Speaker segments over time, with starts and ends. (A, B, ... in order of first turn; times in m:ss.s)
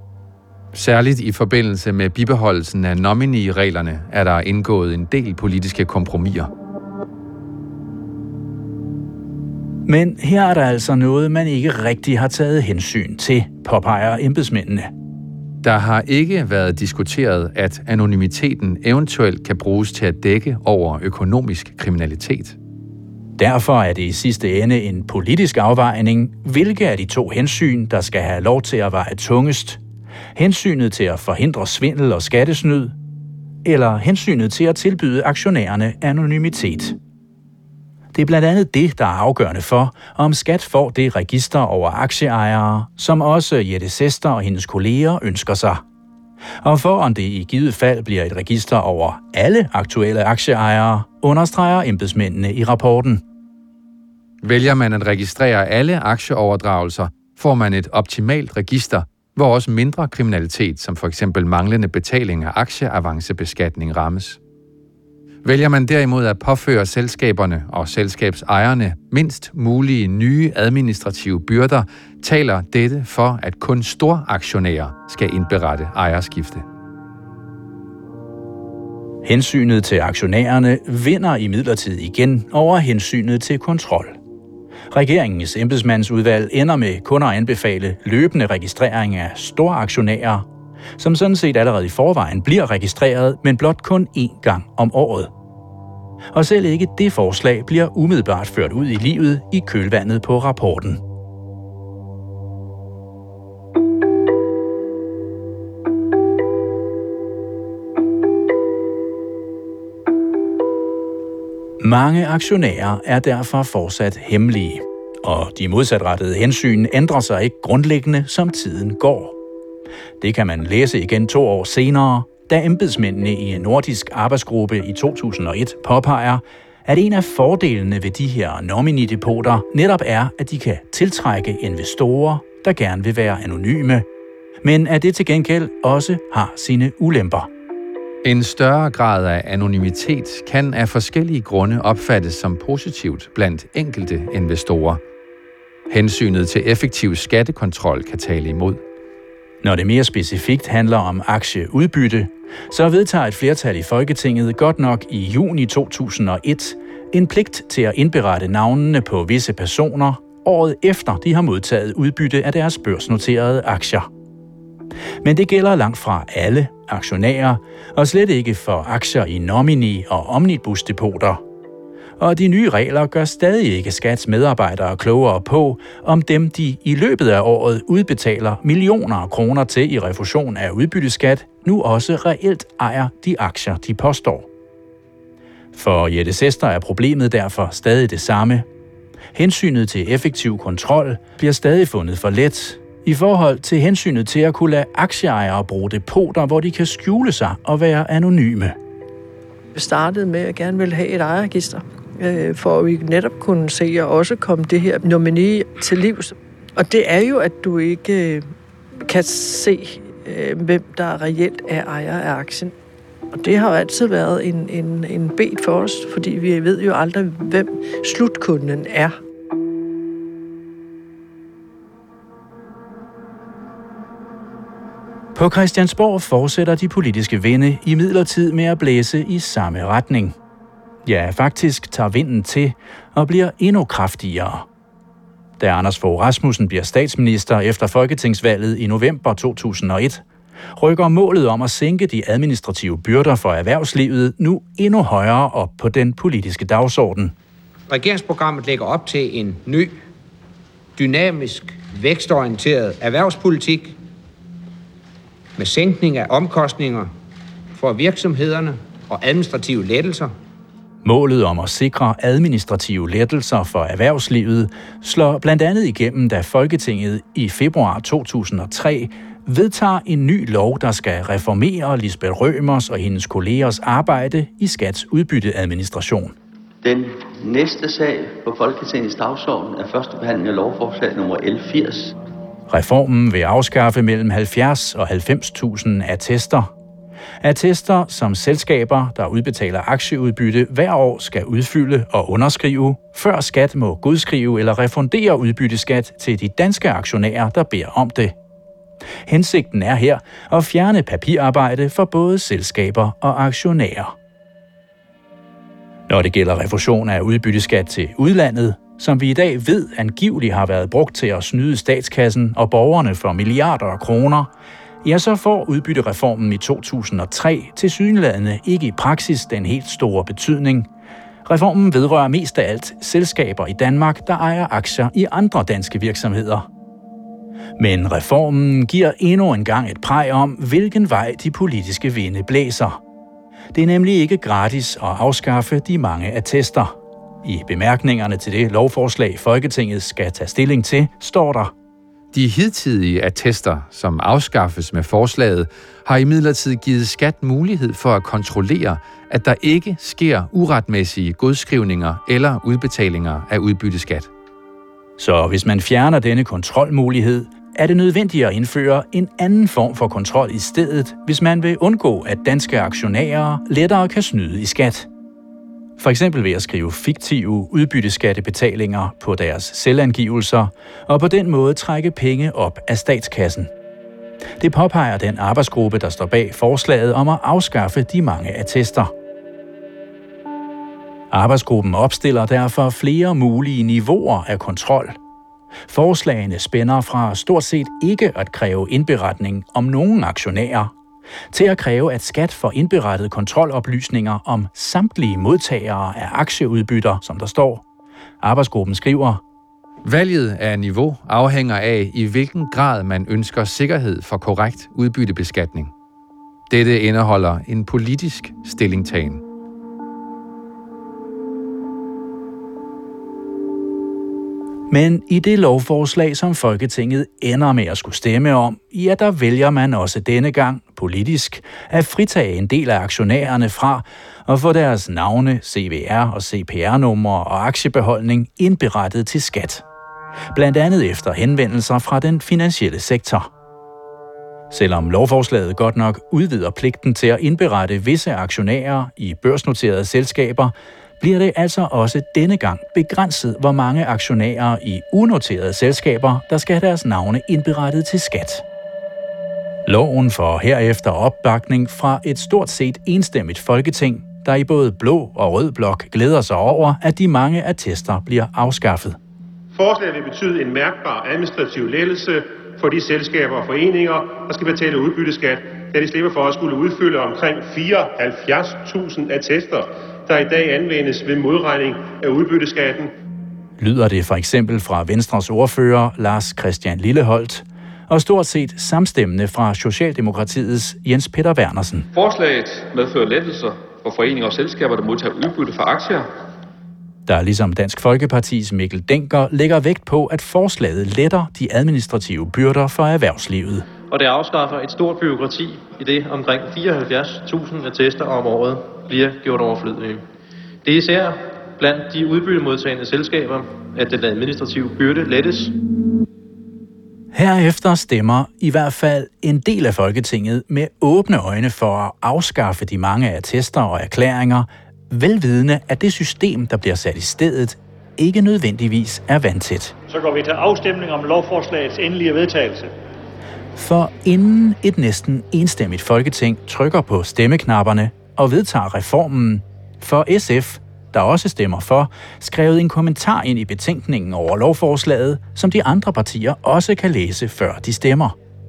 0:00.7-0:06.5 A
0:09.8-0:14.9 B
0:15.6-0:22.6 A
0:23.4-0:29.8 B
0:30.3-0:32.9 B
0:33.6-0:37.0 B
0:38.1-0:45.8 B
0:46.6-0:53.2 B
0:54.4-1:04.4 A
1:05.4-1:16.6 A
1:19.2-1:24.2 B
1:24.9-1:35.3 B
1:36.3-1:41.0 B
1:51.8-1:59.4 B
2:00.2-2:14.0 B
2:14.6-2:17.5 B
2:18.2-2:25.0 A
2:25.9-2:28.8 A
2:29.6-2:44.1 B
2:45.2-2:51.4 B
2:52.2-3:04.5 B
3:05.7-3:08.7 B
3:09.3-3:18.8 B
3:19.7-3:28.5 C
3:29.0-3:32.7 C
3:33.3-3:39.2 C
3:45.3-3:50.4 B
3:51.0-3:54.6 B
3:55.6-4:00.2 B
4:00.8-4:07.3 B
4:07.9-4:10.0 D
4:11.0-4:14.0 D
4:15.6-4:17.1 D
4:17.7-4:20.3 D
4:21.0-4:36.4 B
4:36.8-4:42.2 E
4:42.7-4:46.7 B
4:47.4-4:58.3 B
4:59.3-5:04.1 B
5:06.1-5:14.5 B
5:15.0-5:20.9 B
5:21.4-5:26.7 B
5:27.8-5:33.0 B
5:33.7-5:41.7 B
5:42.3-5:54.3 A
5:55.2-6:05.1 B
6:06.0-6:13.7 B
6:14.6-6:19.1 B
6:21.3-6:25.2 B
6:25.9-6:30.9 B
6:31.5-6:37.8 B
6:38.4-6:39.4 B
6:40.0-6:45.9 A
6:46.7-6:49.4 A
6:54.9-7:09.8 B
7:10.5-7:13.5 B
7:14.7-7:28.6 B
7:29.8-7:39.2 B
7:39.7-7:53.1 F
7:53.8-8:02.1 B
8:02.1-8:06.3 G
8:07.2-8:13.8 B
8:14.1-8:20.2 H
8:20.8-8:25.8 H
8:27.3-8:40.0 B
8:40.1-8:42.9 I
8:43.8-8:58.3 B